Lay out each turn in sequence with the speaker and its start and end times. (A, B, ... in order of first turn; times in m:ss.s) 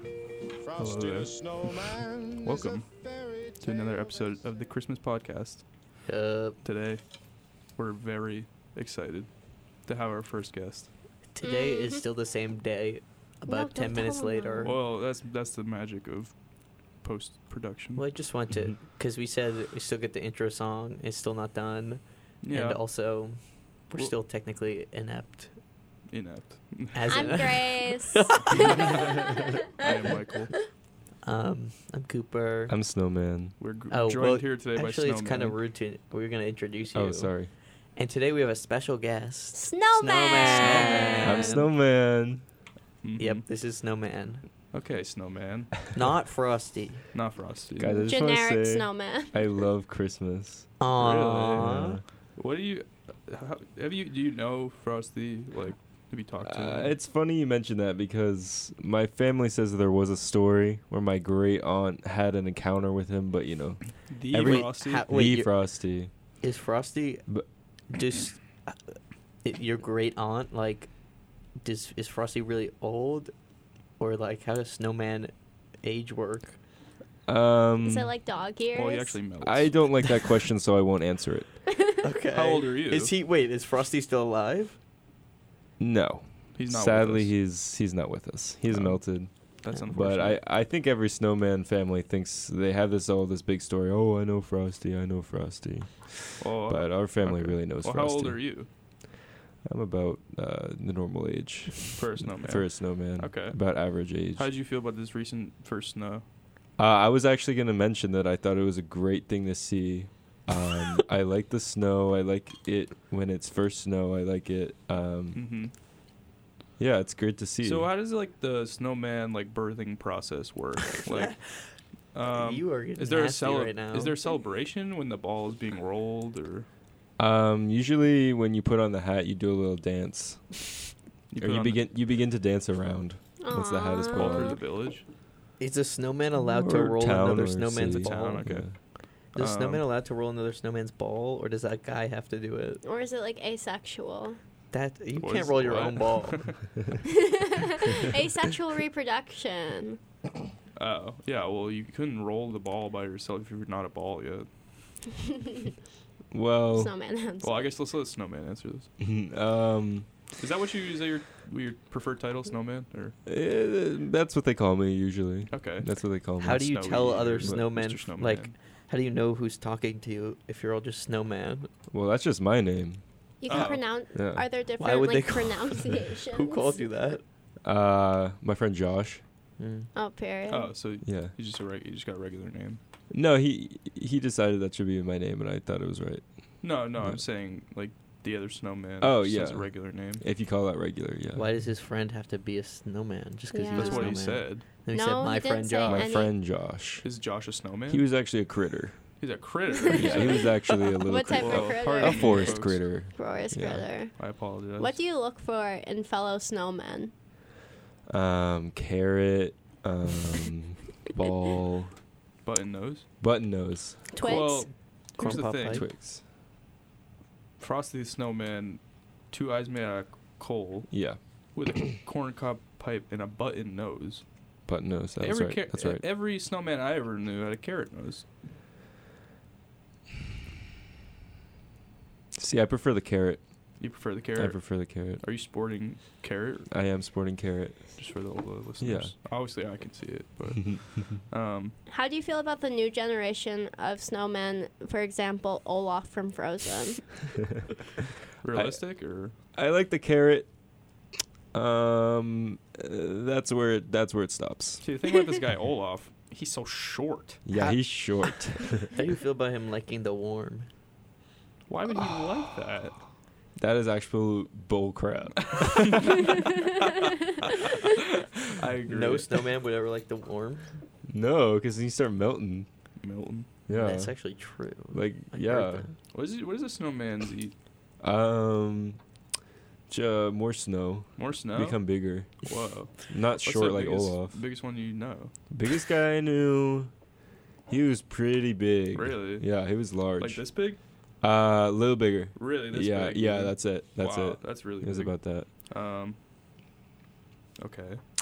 0:00.6-0:04.5 A
0:00.8-0:01.8 B
0:02.4-0:02.9 B
0:03.6-0:05.6 B
0:06.1-0:06.6 C
0:06.6-0:07.0 B
0:07.8-0:09.3 B
0:09.8-0:10.9 B
0:11.4-0:14.7 C
0:11.4-0:12.0 D
0:13.5-0:14.8 D
0:14.6-0:16.3 B
0:17.0-0:18.1 B
0:18.0-0:25.5 C
0:22.4-0:22.8 B
0:26.1-0:27.6 B
0:26.9-0:29.2 C
0:27.1-0:29.5 D
0:28.3-0:29.1 B
0:29.7-0:30.5 B
0:31.2-0:32.7 C
0:32.7-0:33.6 E
0:33.6-0:35.6 B
0:33.9-0:41.7 C
0:36.9-0:37.5 E
0:39.5-0:41.6 D
0:40.4-0:41.4 B
0:41.2-0:42.4 E
0:43.0-0:43.4 B
0:43.2-0:44.5 C
0:44.7-0:45.9 B
0:45.9-0:47.1 C
0:47.1-0:48.0 B
0:47.8-0:50.7 E
0:48.1-0:49.4 D
0:50.8-0:52.0 C
0:51.0-0:51.7 B
0:51.6-0:52.0 E
0:52.4-0:57.0 B
0:56.4-1:06.1 E
1:04.1-1:05.1 B
1:04.4-1:05.5 C
1:06.4-1:07.3 C
1:07.9-1:08.8 C
1:09.4-1:10.9 C
1:11.6-1:13.3 C
1:14.0-1:16.6 C
1:17.3-1:18.1 E
1:17.8-1:19.2 D
1:18.7-1:20.1 B
1:19.4-1:21.5 E
1:22.0-1:24.8 C
1:22.3-1:23.1 B
1:25.8-1:29.3 E
1:26.6-1:27.3 B
1:28.7-1:30.4 B
1:29.9-1:38.4 E
1:36.4-1:38.7 B
1:39.6-1:44.5 E
1:42.0-1:46.2 B
1:46.8-1:55.4 E
1:55.3-1:55.7 B
1:56.8-1:57.9 E
1:57.6-2:01.4 B
2:01.0-2:01.5 C
2:02.1-2:06.7 B
2:02.3-2:04.2 C
2:07.2-2:10.7 E
2:11.3-2:11.9 B
2:11.4-2:14.6 E
2:13.4-2:14.6 D
2:14.1-2:15.0 B
2:15.6-2:18.6 C
2:16.4-2:18.7 E
2:18.0-2:18.8 B
2:19.3-2:19.8 B
2:19.4-2:22.8 C
2:22.8-2:24.4 D
2:24.7-2:26.6 C
2:25.2-2:26.6 B
2:27.1-2:30.0 D
2:30.8-2:34.5 B
2:36.3-2:36.9 E
2:36.7-2:37.7 D
2:37.4-2:38.9 B
2:39.0-2:40.1 E
2:40.4-2:43.2 B
2:43.3-2:46.7 E
2:45.5-2:45.9 B
2:46.4-2:48.5 B
2:46.4-2:51.7 C
2:51.9-2:53.0 E
2:53.4-2:56.8 D
2:53.5-2:53.8 B
2:54.1-2:54.4 E
2:54.8-2:57.2 C
2:57.6-2:59.2 E
2:59.6-2:59.9 C
3:00.0-3:00.7 D
3:00.5-3:02.8 B
3:01.0-3:01.3 E
3:03.1-3:06.2 E
3:06.6-3:10.2 B
3:09.0-3:11.5 E
3:11.4-3:16.1 C
3:13.5-3:14.2 D
3:13.8-3:14.6 B
3:14.9-3:16.3 D
3:15.8-3:17.1 E
3:17.0-3:18.0 B
3:17.9-3:19.0 E
3:19.2-3:20.5 B
3:19.9-3:23.8 E
3:19.9-3:20.3 D
3:21.0-3:24.2 D
3:21.3-3:22.8 B
3:24.2-3:25.0 B
3:24.8-3:27.1 D
3:28.1-3:32.0 E
3:32.4-3:33.1 B
3:33.2-3:34.0 E
3:34.1-3:34.7 D
3:34.2-3:35.8 B
3:35.2-3:35.8 C
3:35.6-3:36.2 E
3:37.6-3:40.9 B
3:40.9-3:41.2 E
3:41.6-3:44.2 B
3:44.7-3:46.0 E
3:45.2-3:48.2 B
3:52.4-3:53.4 E
3:53.8-3:56.7 B
3:54.4-3:55.2 E
3:56.7-3:58.0 E
3:58.0-4:01.8 B
3:58.8-3:59.1 E
4:01.9-4:07.0 D
4:08.4-4:09.3 B
4:09.5-4:10.5 E
4:11.5-4:14.8 E
4:14.8-4:17.4 B
4:17.5-4:18.9 E
4:17.5-4:17.8 C
4:18.9-4:20.7 C
4:21.7-4:23.1 B
4:23.6-4:26.0 E
4:25.5-4:26.4 B
4:27.4-4:29.4 B
4:28.9-4:30.7 C
4:31.1-4:32.7 E
4:33.0-4:33.5 B
4:33.7-4:34.2 E
4:33.7-4:35.9 C
4:34.9-4:35.9 E
4:36.1-4:37.5 B
4:38.0-4:39.0 E
4:39.9-4:42.4 E
4:41.2-4:45.3 B
4:43.1-4:44.4 E
4:45.5-4:46.9 E
4:47.7-4:50.4 E
4:48.9-4:49.5 B
4:50.2-4:50.8 B
4:51.2-4:55.5 E
4:52.4-4:56.2 B
4:57.6-4:58.0 B